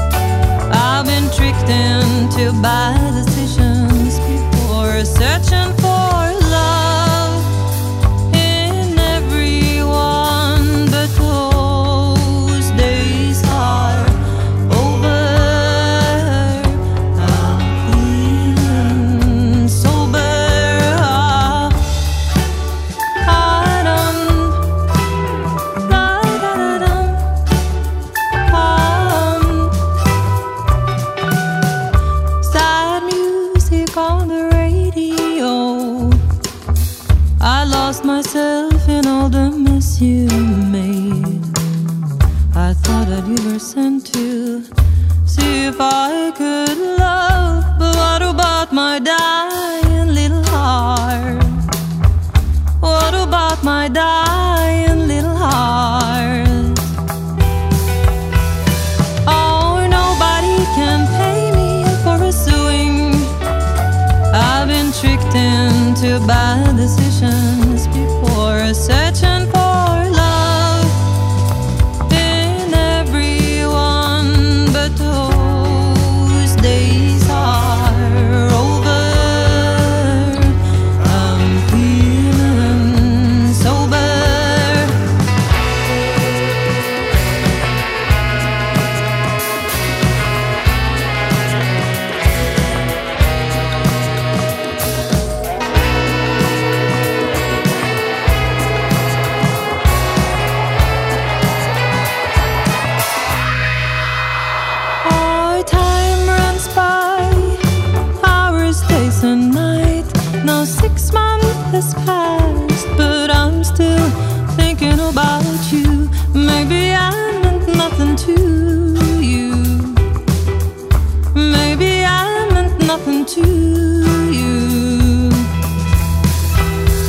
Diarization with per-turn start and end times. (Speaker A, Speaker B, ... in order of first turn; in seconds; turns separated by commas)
Speaker A: 0.7-7.5, Speaker A: 8.3-21.9, Speaker A: 23.2-24.6, Speaker A: 25.8-27.2, Speaker A: 28.4-29.8, Speaker A: 32.4-36.2, Speaker A: 37.4-41.6, Speaker A: 42.5-44.7, Speaker A: 45.2-51.7, Speaker A: 52.8-56.9, Speaker A: 59.2-63.3, Speaker A: 64.3-71.0, Speaker A: 72.1-85.0, Speaker A: 105.0-107.6, Speaker A: 108.2-120.0, Speaker A: 121.3-125.5